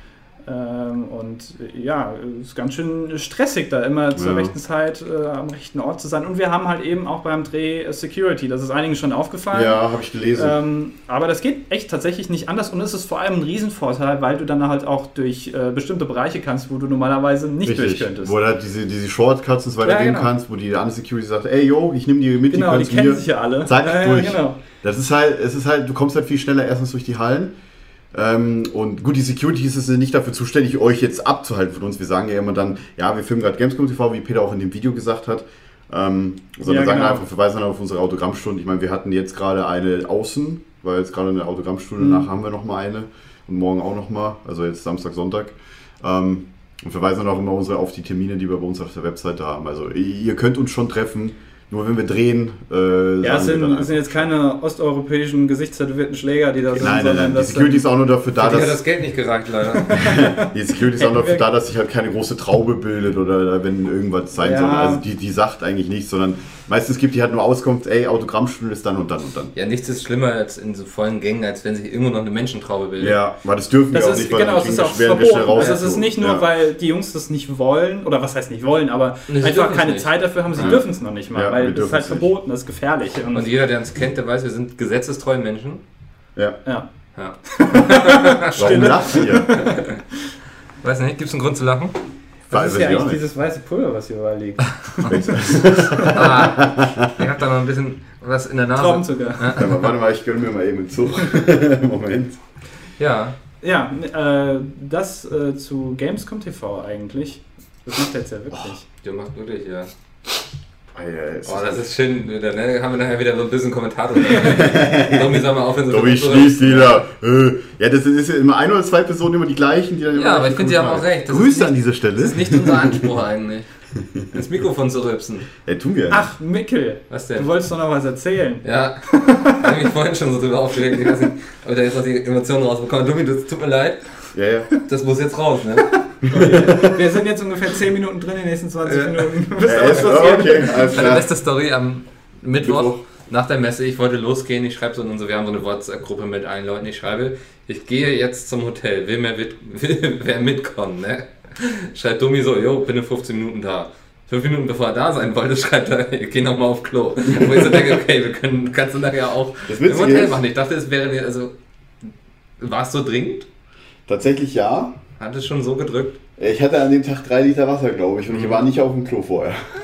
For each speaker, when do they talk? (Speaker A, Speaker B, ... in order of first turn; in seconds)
Speaker A: 0.5-9.8, 10.3-18.4, 19.8-20.3, 22.5-24.6, 36.6-37.2, 42.0-42.2, 53.2-57.9, 59.8-61.4, 64.4-65.0, 73.9-83.5, 87.5-89.8, 92.5-96.2, 98.8-99.6, 103.6-108.8, 126.1-129.8, 136.1-141.1
Speaker B: 4.2-4.5, 9.5-10.6, 17.6-27.5, 28.1-54.3, 56.8-58.8, 59.9-69.5, 73.0-76.5, 80.6-82.3, 88.5-89.7, 92.5-93.2, 95.1-97.1, 99.5-102.4, 110.9-111.9, 114.4-123.1, 124.0-124.3, 125.6-126.3, 134.3-134.7, 136.2-137.0, 139.6-141.3, 142.6-143.0, 159.7-160.4, 164.1-165.0, 166.4-169.6
Speaker C: 58.4-60.1, 69.5-73.2, 75.6-75.8, 79.3-80.8, 83.3-85.8, 87.2-90.0, 90.8-92.0, 96.0-99.8, 103.0-103.3, 109.0-109.9, 111.5-117.0, 120.1-123.7, 124.3-125.5, 127.1-127.5, 128.6-134.0, 134.8-136.8, 138.9-139.4, 139.9-161.5, 162.6-163.5, 165.2-166.2, 168.3-168.6